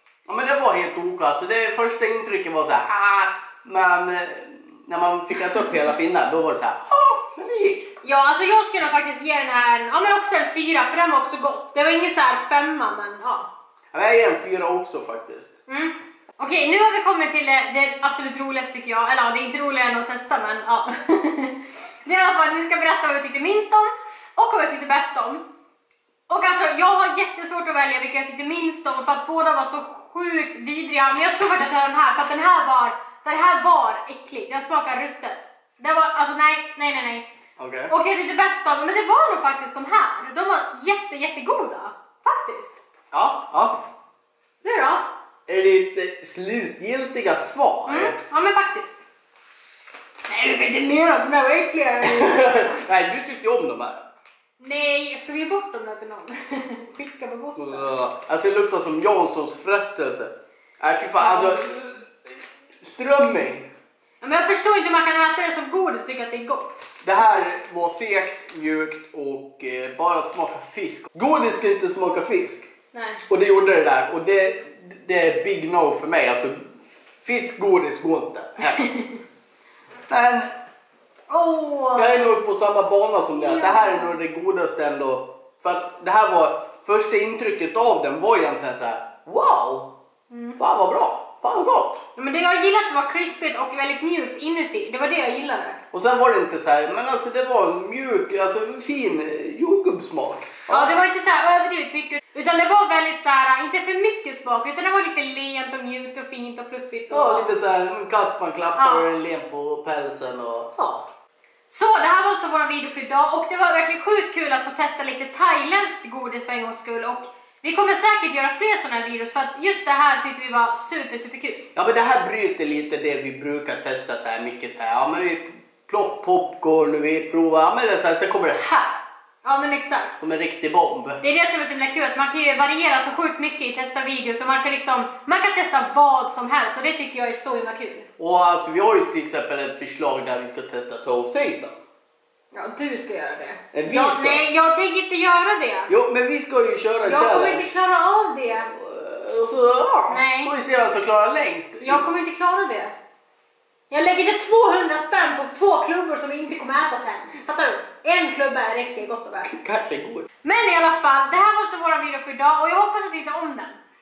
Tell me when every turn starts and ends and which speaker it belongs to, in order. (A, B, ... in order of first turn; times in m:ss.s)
0:00.3-0:07.9 A
0:08.0-0:13.5 B
0:13.9-0:15.6 A
0:15.7-0:25.4 B
0:26.3-0:37.2 B
0:37.6-0:37.9 A
0:37.9-0:42.8 B
0:43.1-0:43.8 A
0:44.6-0:45.1 B
0:45.5-0:48.2 A
0:47.9-0:49.0 B
0:50.3-0:52.5 B
0:52.0-0:54.0 A
0:54.6-0:57.9 B
0:57.6-1:03.7 A
1:01.2-1:01.6 B
1:04.2-1:06.9 B
1:07.0-1:12.7 A
1:12.9-1:13.2 B
1:13.3-1:18.9 A
1:18.8-1:19.2 B
1:20.1-1:20.5 A
1:21.3-1:22.3 B
1:21.9-1:29.9 A
1:23.3-1:24.1 B
1:30.3-1:30.6 B
1:30.6-1:32.0 A
1:32.2-1:35.8 B
1:35.9-1:40.9 A
1:40.7-1:47.5 B
1:47.1-1:51.1 A
1:48.8-1:49.0 B
1:51.7-2:01.6 B
2:01.7-2:09.0 A
2:09.4-2:10.3 B
2:10.2-2:11.2 A
2:11.2-2:18.1 B
2:18.2-2:21.8 A
2:22.5-2:25.9 B
2:23.7-2:24.4 A
2:25.9-2:27.7 A
2:27.0-2:28.7 B
2:28.7-2:32.0 A
2:30.1-2:30.5 B
2:31.8-2:32.9 B
2:33.9-2:39.5 B
2:39.4-2:40.3 A
2:40.4-2:43.8 B